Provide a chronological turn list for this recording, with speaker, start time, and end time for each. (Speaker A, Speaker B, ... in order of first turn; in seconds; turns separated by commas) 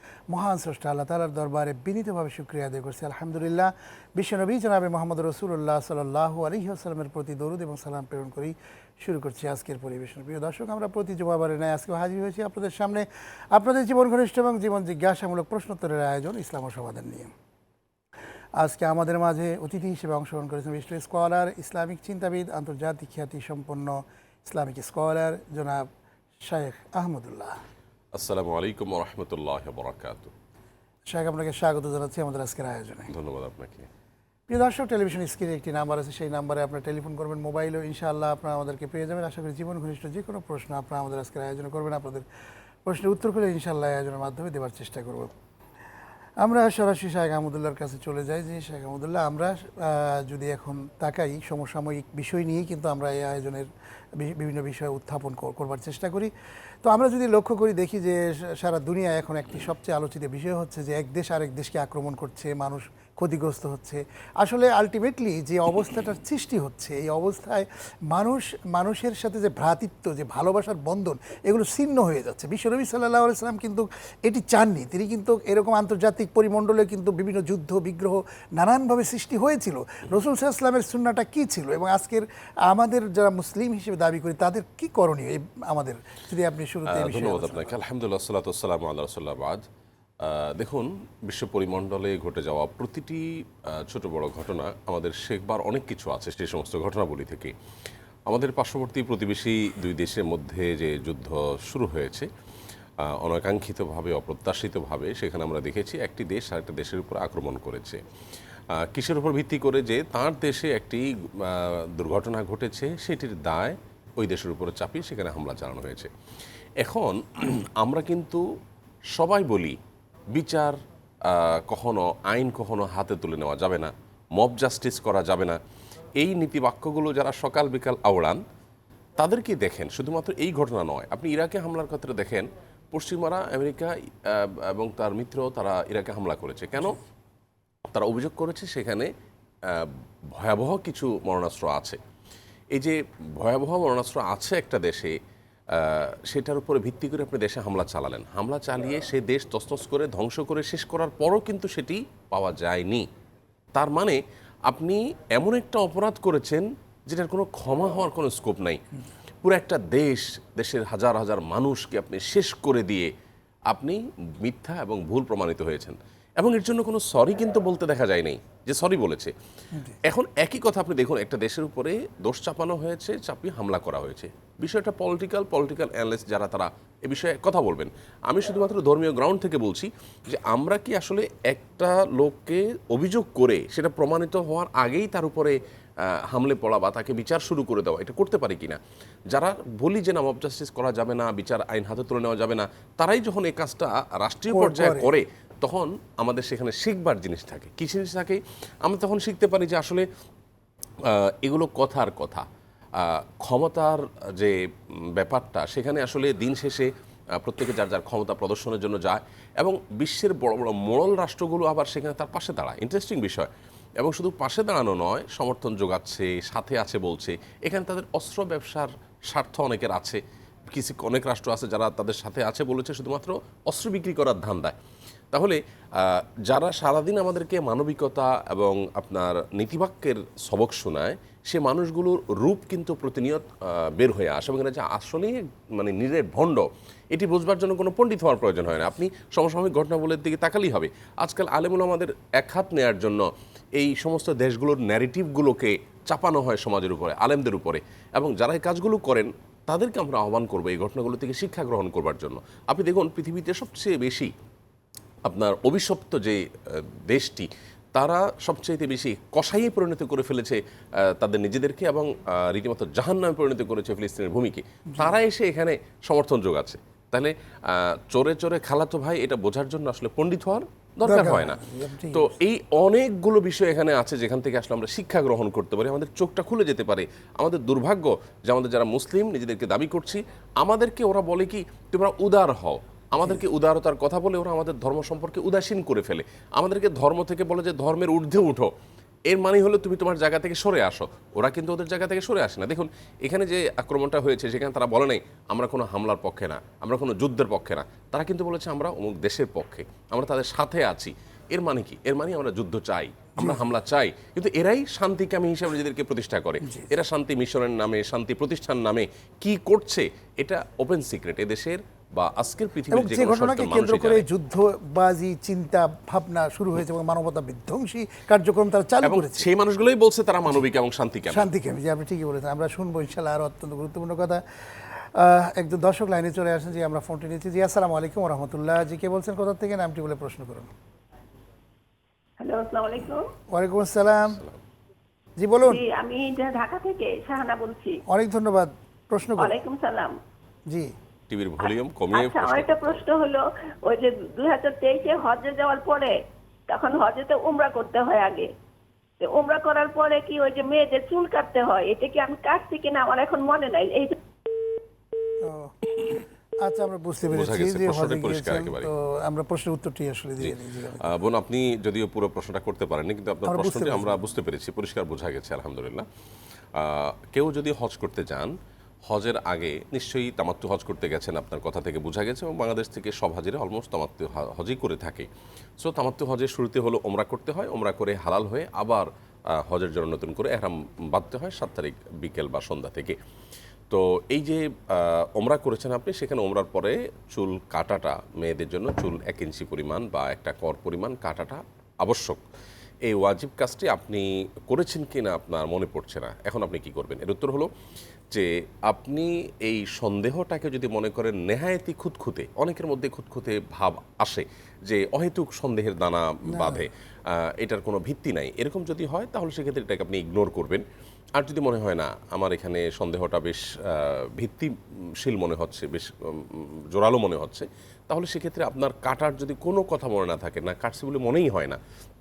Speaker A: 0.3-17.3, Speaker A: 18.6-25.9, Speaker A: 26.4-27.6, Speaker B: 28.1-30.3, Speaker A: 31.1-33.1, Speaker B: 33.1-33.9, Speaker A: 34.5-42.2, Speaker A: 42.9-45.3, Speaker A: 46.4-53.7, Speaker A: 54.2-56.3, Speaker A: 56.8-87.7, Speaker B: 86.9-89.6, Speaker B: 90.2-97.5, Speaker B: 98.3-102.3, Speaker B: 103.0-108.0, Speaker B: 108.7-116.1, Speaker B: 116.8-118.4, Speaker B: 119.1-119.8, Speaker B: 120.3-125.6, Speaker B: 126.2-128.4, Speaker B: 129.2-137.0, Speaker B: 137.9-139.1, Speaker B: 139.6-142.0, Speaker B: 142.7-145.2, Speaker B: 145.7-153.1, Speaker B: 153.7-158.8, Speaker B: 159.4-163.1, Speaker B: 163.7-169.3, Speaker B: 170.0-188.8, Speaker B: 189.3-200.1, Speaker A: 194.5-195.1, Speaker B: 201.0-224.8, Speaker B: 225.3-254.3, Speaker B: 255.2-288.7, Speaker A: 271.0-272.3, Speaker B: 289.3-314.2, Speaker A: 306.6-306.9, Speaker A: 312.9-319.5, Speaker B: 319.0-321.5, Speaker A: 321.3-324.4, Speaker A: 325.1-330.7, Speaker C: 332.4-333.3, Speaker A: 333.5-334.4, Speaker A: 335.4-335.8, Speaker C: 335.6-338.0, Speaker A: 338.1-339.6, Speaker C: 339.4-340.2, Speaker B: 341.3-343.1, Speaker C: 342.1-346.1, Speaker C: 346.7-348.5, Speaker C: 349.2-354.2, Speaker A: 355.4-361.2, Speaker B: 357.3-358.9, Speaker B: 360.4-366.1, Speaker A: 363.4-364.2, Speaker B: 366.7-368.5, Speaker B: 369.1-375.3, Speaker B: 375.8-383.2, Speaker B: 383.9-392.4, Speaker B: 393.0-397.7, Speaker B: 398.3-410.8, Speaker A: 406.5-406.8, Speaker B: 411.3-421.8